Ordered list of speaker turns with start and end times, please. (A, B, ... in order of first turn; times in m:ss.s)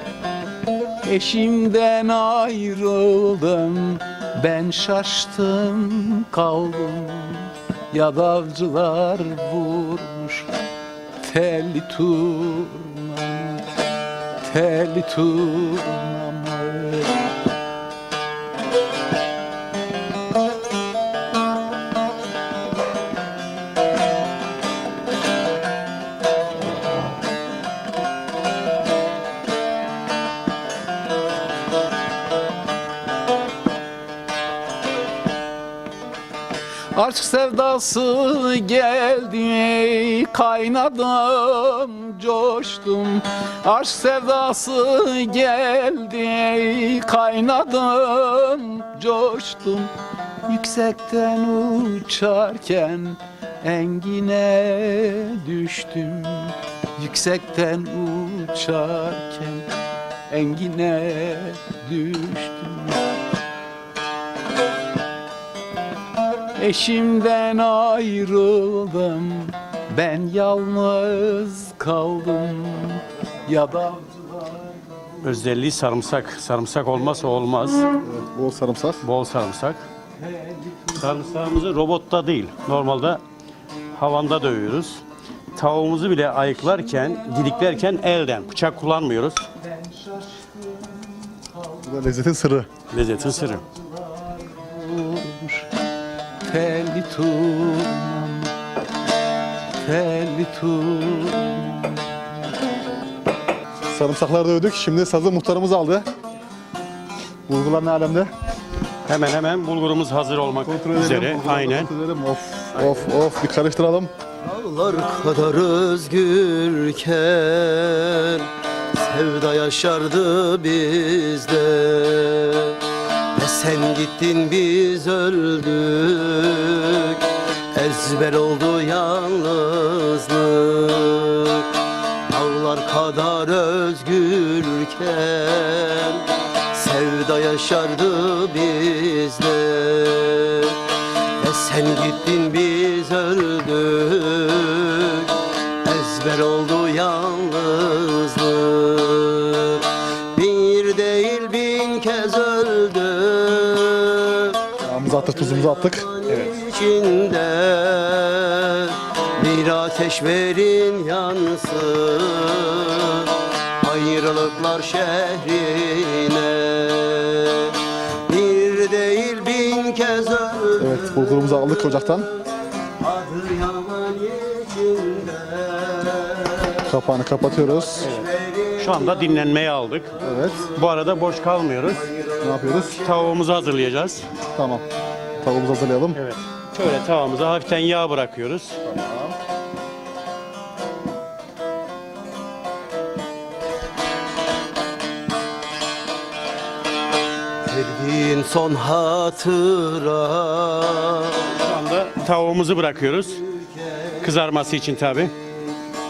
0:01.0-0:10.5 A
0:11.2-0:13.7 A
0:14.4-0:17.3 A
0:36.9-0:49.9 A
0:50.5-0:59.7 A
1:00.3-1:03.0 A
1:06.6-1:15.2 A
1:15.2-1:17.9 B
1:18.0-1:19.0 C
1:19.0-1:19.8 B
1:20.2-1:21.6 A
1:20.9-1:23.2 B
1:23.9-1:25.0 B
1:25.5-1:29.4 B
1:29.6-1:32.0 A
1:31.8-1:32.7 C
1:32.9-1:33.6 B
1:33.2-1:35.7 A
1:36.4-1:38.5 A
1:39.8-1:42.0 A
1:43.9-1:46.0 C
1:47.5-1:48.3 C
1:49.0-1:51.9 B
1:50.6-1:54.1 C
1:52.7-1:53.1 B
1:54.4-2:02.8 D
2:03.3-2:11.7 D
2:12.3-2:20.8 D
2:21.4-2:25.3 D
2:25.8-2:52.5 D
2:34.8-2:36.1 C
2:36.3-2:36.6 B
2:50.8-2:52.3 C
2:53.0-2:56.8 D
2:56.8-2:58.1 C
2:57.6-2:59.6 D
2:58.0-3:00.2 B
3:00.1-3:01.0 D
3:00.2-3:00.6 C
3:00.7-3:02.0 B
3:01.8-3:03.8 D
3:02.4-3:03.0 C
3:03.0-3:04.2 B
3:04.5-3:04.8 C
3:05.4-3:06.2 C
3:06.1-3:08.8 B
3:08.8-3:09.4 C
3:17.6-3:21.4 D
3:21.5-3:23.4 B
3:22.9-3:24.3 D
3:24.2-3:25.3 B